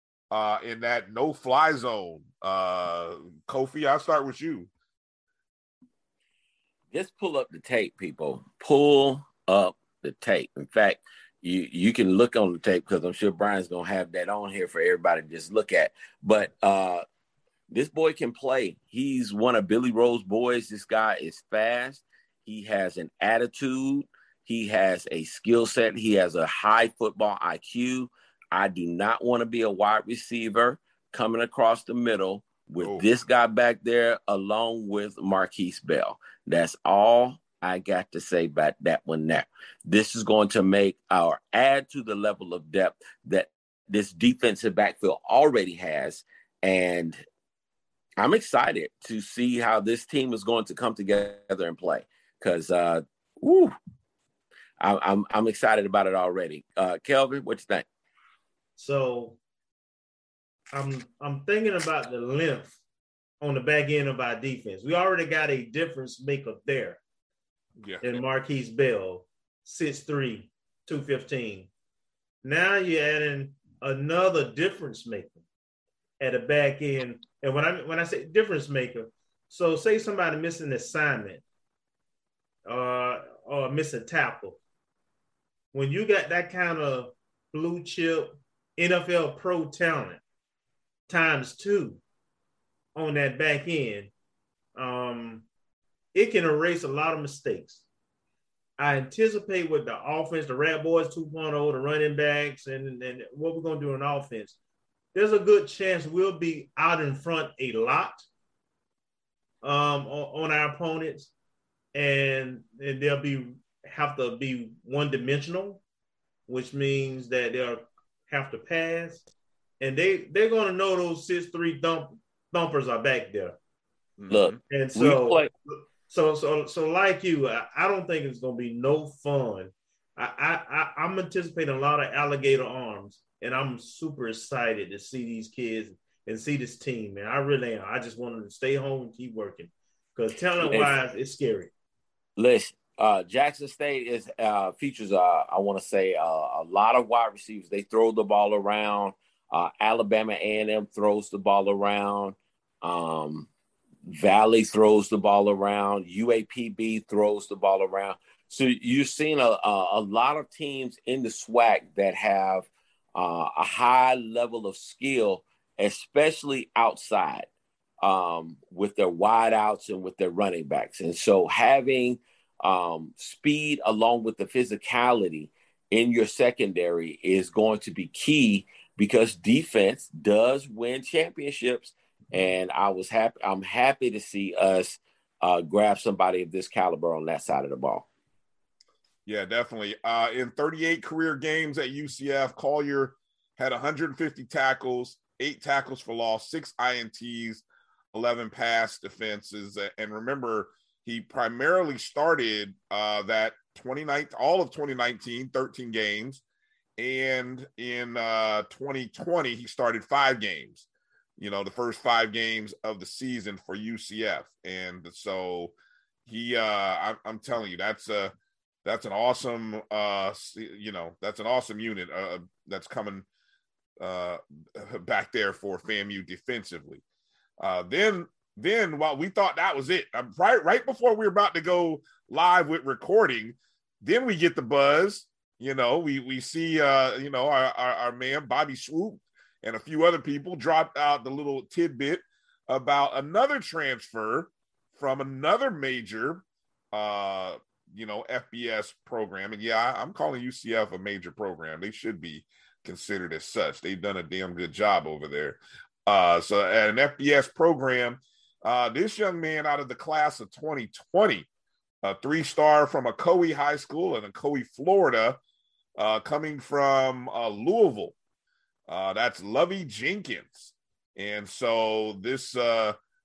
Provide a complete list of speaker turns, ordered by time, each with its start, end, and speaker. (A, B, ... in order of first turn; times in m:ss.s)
0:00.3-0:04.7 A
0:06.9-0:17.0 B
0:17.7-0:47.2 B
0:32.8-0:33.0 A
0:48.2-0:53.7 B
0:54.8-0:57.9 B
0:58.8-0:59.4 C
1:00.7-1:02.8 C
1:03.4-1:07.0 C
1:07.8-1:08.2 A
1:08.0-1:11.7 C
1:12.4-1:15.4 C
1:16.2-1:21.4 C
1:22.7-1:24.6 C
1:25.7-1:30.2 C
1:31.1-1:32.0 C
1:33.0-1:34.1 C
1:34.8-1:35.5 C
1:36.1-1:37.8 C
1:38.8-1:44.6 C
1:45.1-1:48.3 C
1:49.6-1:51.3 C
1:51.9-1:55.8 C
1:56.5-1:59.3 C
1:59.8-2:03.6 C
2:04.2-2:04.6 A
2:04.3-2:05.5 B
2:04.7-2:21.7 C
2:20.6-2:21.0 B
2:22.4-2:33.5 B
2:34.0-2:47.5 B
2:48.0-3:08.1 B
3:09.3-3:26.4 A
3:27.0-3:30.9 A
3:31.4-3:35.7 A
3:36.3-3:38.3 A
3:38.8-3:43.3 A
3:44.0-3:47.0 A
3:47.6-4:21.5 A
4:22.0-4:25.4 A
4:26.0-4:28.2 A
4:28.9-4:33.0 A